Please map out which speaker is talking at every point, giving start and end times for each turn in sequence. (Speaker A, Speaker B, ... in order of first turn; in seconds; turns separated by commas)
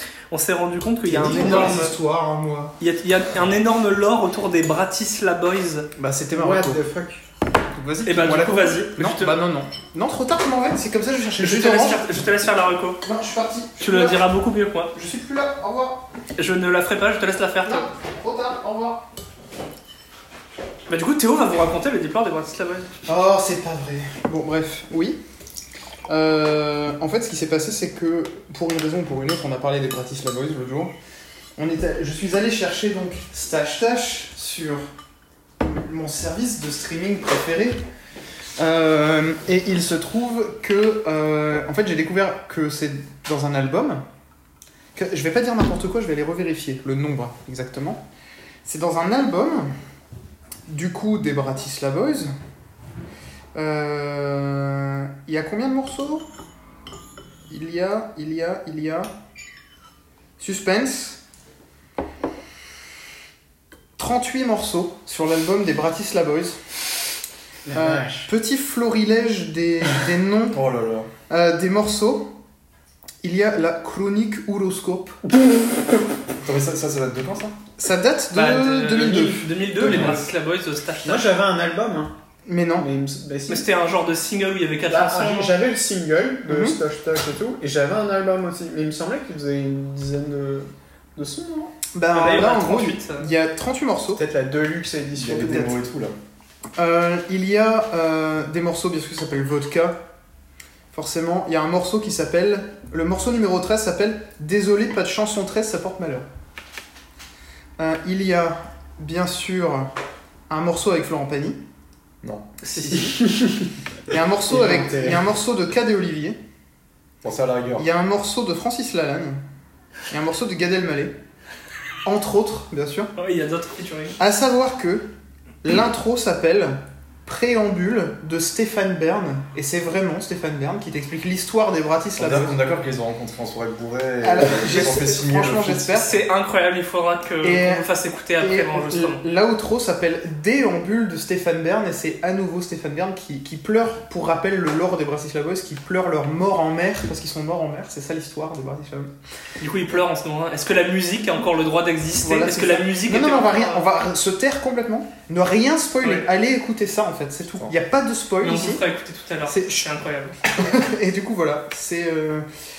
Speaker A: 0.3-1.9, Speaker B: 1.1-2.8, Speaker C: 1.3-1.7, Speaker A: 2.8-5.9, Speaker B: 6.0-6.9, Speaker C: 6.3-7.2, Speaker B: 7.7-12.1, Speaker A: 8.1-9.4, Speaker A: 11.4-13.0, Speaker B: 13.0-14.2, Speaker A: 13.8-14.9, Speaker B: 14.9-16.0, Speaker A: 16.4-17.9, Speaker B: 17.7-19.1, Speaker A: 20.9-22.9, Speaker B: 23.1-25.2, Speaker B: 26.1-30.9, Speaker B: 31.6-34.9, Speaker B: 35.6-37.8, Speaker B: 38.6-44.0, Speaker B: 45.0-48.0, Speaker B: 48.6-49.7, Speaker B: 50.7-52.3, Speaker B: 53.5-56.3, Speaker B: 57.5-59.1, Speaker B: 60.4-61.2, Speaker B: 64.0-66.6, Speaker C: 67.7-68.3, Speaker B: 67.7-70.6, Speaker D: 70.5-71.1, Speaker B: 71.3-72.3, Speaker B: 73.2-75.2, Speaker D: 76.4-77.6, Speaker B: 77.8-80.3, Speaker A: 78.3-81.4, Speaker C: 81.0-82.1, Speaker B: 82.5-82.9, Speaker C: 82.8-83.7, Speaker A: 83.5-85.5, Speaker C: 84.9-91.8, Speaker B: 86.5-86.8, Speaker B: 91.9-94.2, Speaker A: 92.1-93.3, Speaker C: 94.2-95.8, Speaker D: 95.2-96.1, Speaker B: 95.4-95.8, Speaker B: 96.8-100.0, Speaker B: 100.9-106.3, Speaker B: 107.8-109.9, Speaker B: 110.5-111.6, Speaker A: 112.6-113.2, Speaker C: 112.9-113.7, Speaker B: 114.1-116.4, Speaker C: 114.5-115.2, Speaker D: 117.2-117.9, Speaker B: 117.8-119.4, Speaker B: 120.1-121.1, Speaker B: 122.0-123.1, Speaker A: 123.2-124.2, Speaker B: 124.2-125.1, Speaker B: 125.6-132.6, Speaker D: 132.2-136.1, Speaker B: 134.2-136.2, Speaker A: 136.0-139.2, Speaker B: 137.4-137.9, Speaker B: 138.4-149.1, Speaker A: 149.6-153.8, Speaker B: 152.2-158.8, Speaker A: 158.4-160.3, Speaker B: 159.5-159.9, Speaker B: 160.4-162.5